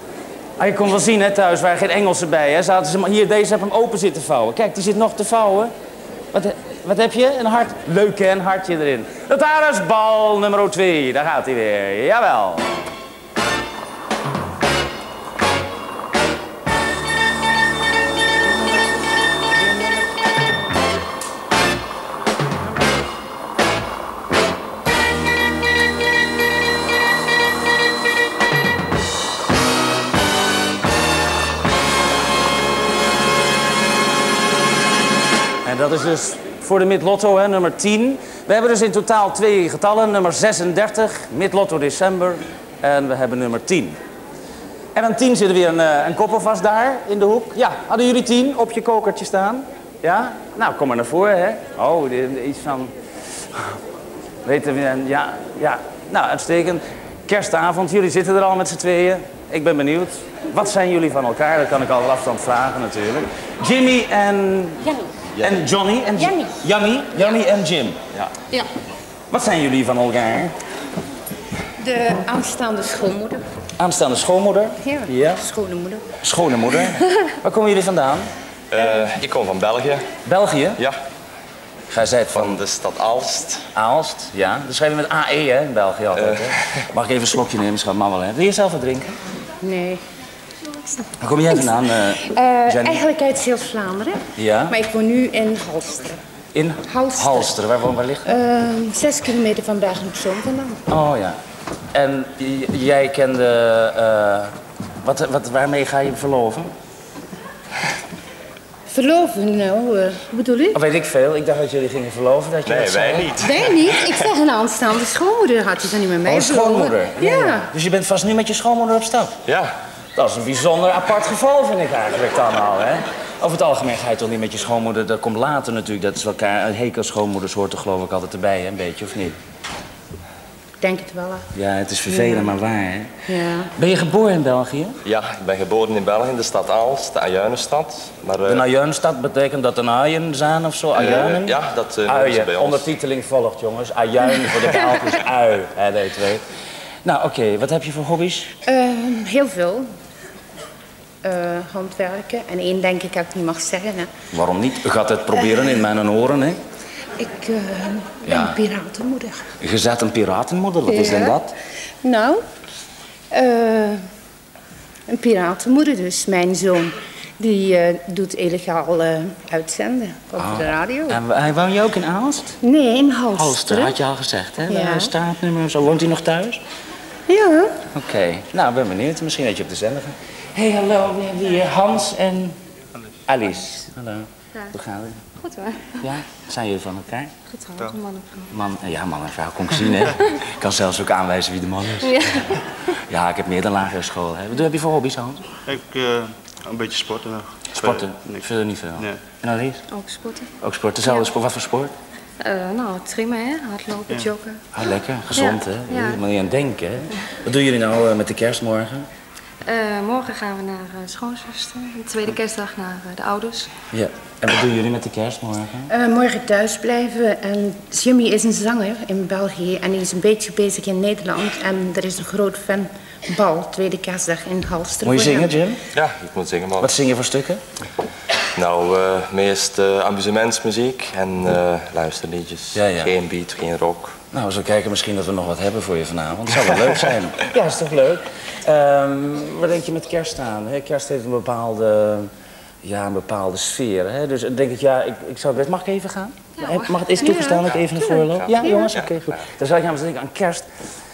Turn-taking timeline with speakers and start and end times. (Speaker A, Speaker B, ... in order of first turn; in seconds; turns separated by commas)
Speaker A: 0.6-5.7, Speaker A: 6.3-12.8, Speaker A: 35.6-44.0, Speaker A: 45.0-52.9, Speaker A: 54.5-68.1, Speaker B: 66.2-66.5, Speaker A: 69.3-70.6, Speaker B: 71.8-73.4, Speaker A: 73.8-75.4, Speaker B: 74.8-76.1, Speaker A: 76.2-78.3, Speaker C: 78.7-80.1, Speaker A: 80.2-80.8, Speaker A: 81.9-82.6, Speaker C: 82.3-83.7, Speaker A: 83.8-89.2, Speaker C: 86.2-86.6, Speaker B: 89.6-90.0, Speaker A: 91.2-93.0, Speaker B: 92.2-96.2, Speaker A: 94.4-94.8, Speaker A: 96.5-98.3, Speaker B: 96.9-97.5, Speaker B: 98.2-100.8, Speaker A: 100.9-101.4, Speaker A: 101.9-104.5, Speaker A: 105.0-106.7, Speaker B: 108.9-110.8, Speaker A: 110.7-113.4, Speaker C: 112.7-113.9, Speaker B: 113.4-117.7, Speaker A: 116.2-119.4, Speaker C: 119.5-119.7, Speaker A: 120.2-129.4, Speaker B: 130.8-131.5, Speaker A: 131.5-133.1, Speaker B: 132.1-132.5, Speaker B: 133.3-133.7, Speaker A: 133.8-135.0, Speaker C: 135.1-138.7, Speaker A: 138.5-146.4, Speaker C: 140.9-142.9, Speaker A: 147.1-148.5, Speaker B: 148.7-149.9, Speaker B: 151.2-154.1, Speaker A: 154.3-156.6, Speaker B: 157.2-159.5, Speaker A: 158.2-158.6, Speaker A: 159.6-161.5, Speaker B: 160.9-161.4, Speaker B: 162.0-162.4, Speaker B: 163.3-164.0, Speaker B: 165.1-171.2, Speaker A: 170.4-172.6, Speaker B: 172.6-173.9, Speaker A: 173.3-176.6, Speaker B: 174.7-175.1, Speaker B: 177.3-177.8, Speaker A: 177.9-182.6, Speaker A: 183.3-185.2, Speaker A: 186.0-187.3, Speaker D: 187.6-188.4, Speaker A: 188.5-192.5, Speaker A: 193.1-195.4, Speaker E: 195.7-198.4, Speaker A: 197.8-199.8, Speaker A: 200.6-201.9, Speaker D: 202.4-204.6, Speaker E: 204.1-204.3, Speaker A: 204.7-209.1, Speaker D: 205.9-206.2, Speaker D: 209.7-213.7, Speaker A: 213.9-215.9, Speaker B: 215.9-225.6, Speaker A: 225.0-225.8, Speaker C: 225.9-227.0, Speaker A: 226.8-227.6, Speaker C: 228.6-234.2, Speaker A: 232.8-233.1, Speaker A: 234.3-242.3, Speaker A: 242.8-250.7, Speaker B: 247.2-248.9, Speaker C: 247.6-249.4